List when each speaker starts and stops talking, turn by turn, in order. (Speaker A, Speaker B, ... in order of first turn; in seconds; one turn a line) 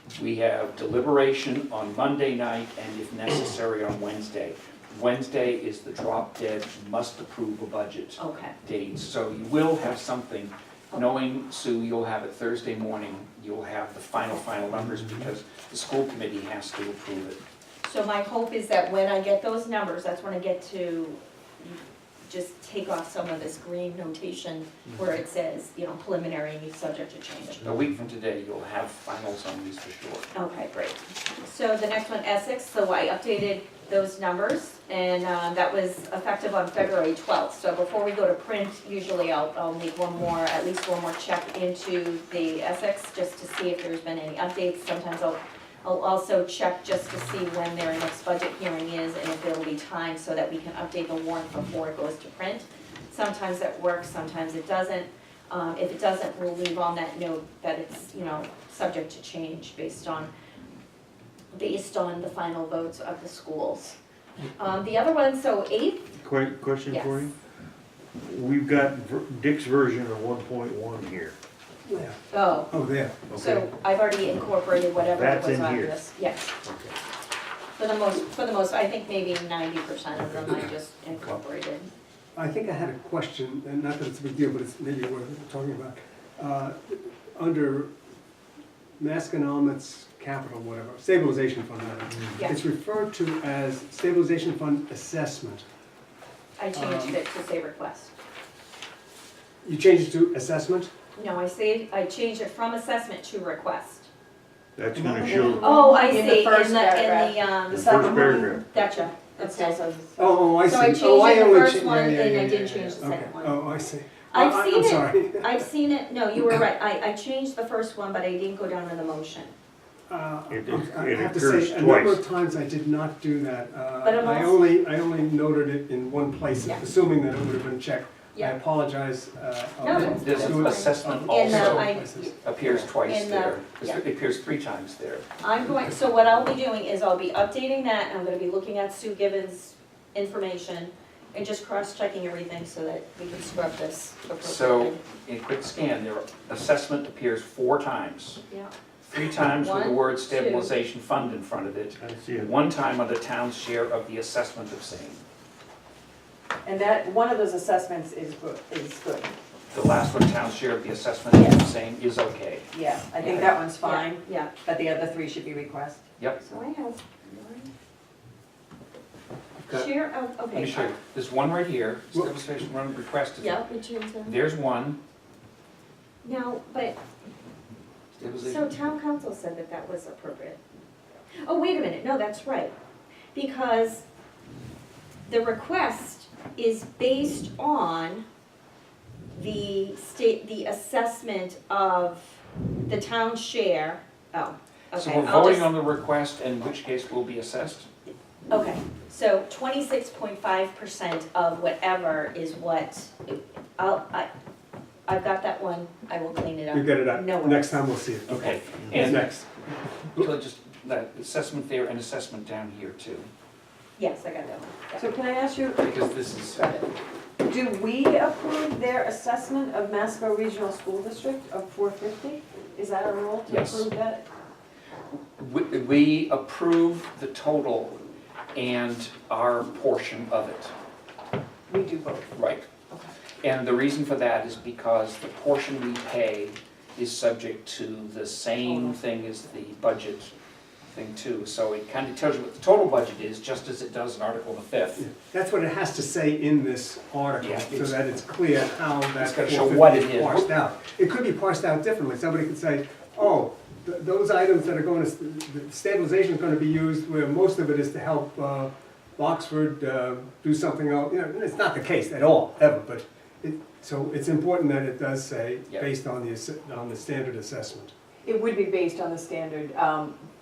Speaker A: 0.1-17.4
Speaker B: 8.2-8.6
Speaker B: 17.8-27.6
Speaker A: 27.6-30.3
Speaker B: 30.3-60.3
Speaker B: 61.5-64.0
Speaker B: 64.6-66.1
Speaker C: 66.2-67.3
Speaker B: 66.9-67.2
Speaker C: 68.2-71.3
Speaker D: 71.8-72.2
Speaker B: 72.3-72.7
Speaker D: 72.7-73.3
Speaker C: 73.3-73.6
Speaker B: 73.3-76.5
Speaker C: 75.0-76.1
Speaker C: 76.6-76.9
Speaker B: 77.8-81.9
Speaker C: 80.2-80.7
Speaker D: 82.3-87.9
Speaker D: 89.0-95.6
Speaker B: 96.6-98.1
Speaker D: 96.7-97.2
Speaker D: 99.6-100.9
Speaker B: 101.2-104.1
Speaker C: 104.8-105.7
Speaker E: 105.0-110.2
Speaker B: 105.5-109.8
Speaker C: 107.7-108.6
Speaker D: 110.2-115.6
Speaker B: 110.6-113.6
Speaker B: 114.3-119.5
Speaker D: 120.1-132.3
Speaker C: 120.5-122.2
Speaker B: 124.0-124.6
Speaker B: 129.8-134.0
Speaker A: 129.8-135.2
Speaker B: 135.4-145.0
Speaker A: 144.4-148.4
Speaker A: 149.1-155.2
Speaker B: 149.4-150.7
Speaker C: 152.0-152.5
Speaker E: 156.6-159.3
Speaker A: 159.7-163.6
Speaker E: 162.7-166.0
Speaker B: 163.8-164.5
Speaker B: 166.4-167.7
Speaker A: 169.6-169.9
Speaker B: 169.7-170.9
Speaker A: 170.5-173.6
Speaker B: 173.4-174.4
Speaker A: 174.2-175.0
Speaker B: 176.2-177.0
Speaker A: 178.1-178.7
Speaker B: 178.4-180.6
Speaker B: 181.4-182.7
Speaker B: 183.3-184.1
Speaker B: 185.3-188.2
Speaker B: 189.3-195.7
Speaker A: 194.9-197.9
Speaker B: 198.5-204.3
Speaker B: 205.1-207.8
Speaker D: 206.7-210.3
Speaker A: 208.3-209.4
Speaker A: 210.2-213.3
Speaker B: 214.0-215.1
Speaker E: 215.0-216.9
Speaker A: 215.8-216.6
Speaker E: 217.4-224.2
Speaker A: 223.4-223.9
Speaker A: 225.4-228.0
Speaker A: 228.5-230.7
Speaker E: 231.7-232.3
Speaker A: 232.3-232.7
Speaker A: 233.4-240.3
Speaker E: 238.6-239.0
Speaker A: 240.8-245.1
Speaker D: 245.0-267.9
Speaker A: 247.4-248.0
Speaker A: 249.2-250.5
Speaker E: 268.2-270.2